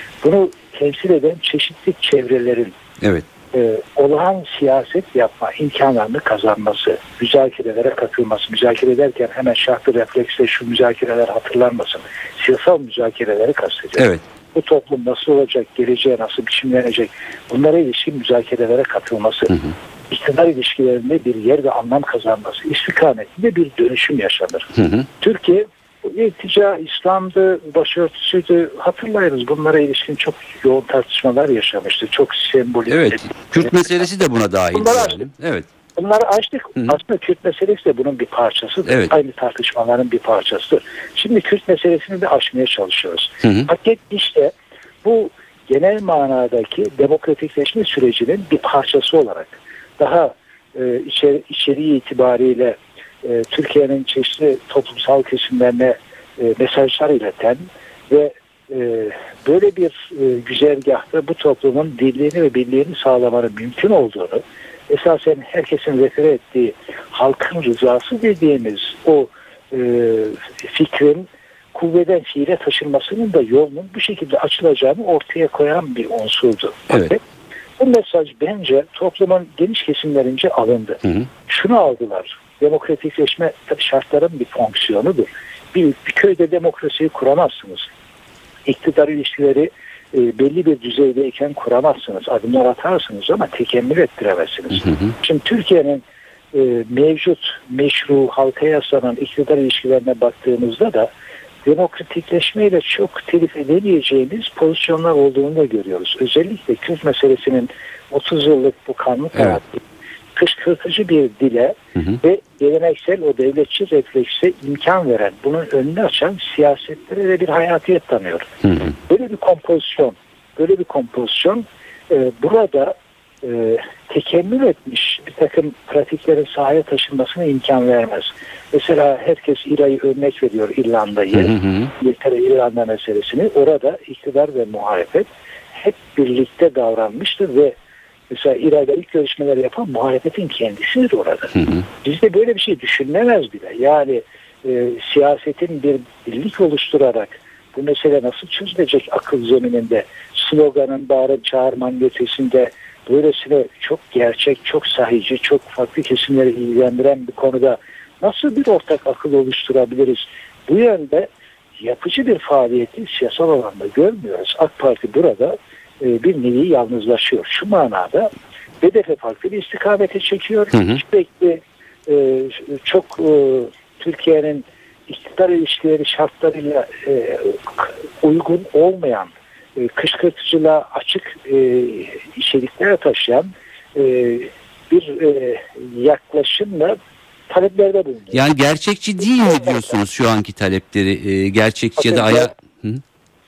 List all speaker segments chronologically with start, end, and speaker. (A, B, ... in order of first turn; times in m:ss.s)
0:00.2-0:02.7 A
0:03.5-0:33.7 A
0:14.0-0:14.2 B
0:24.8-0:25.1 B
0:32.9-0:35.7 B
0:34.7-0:35.2 A
0:36.0-0:44.5 A
0:43.4-0:43.7 B
0:45.0-1:17.2 A
1:17.8-1:27.9 A
1:28.6-1:41.1 A
1:41.6-1:49.8 A
1:50.3-2:17.7 A
1:58.6-1:58.9 B
2:11.3-2:11.9 B
2:18.3-3:07.0 A
2:21.6-2:21.8 B
2:50.7-2:51.0 B
3:07.5-3:08.4 A
3:08.3-3:13.0 B
3:12.0-3:12.5 A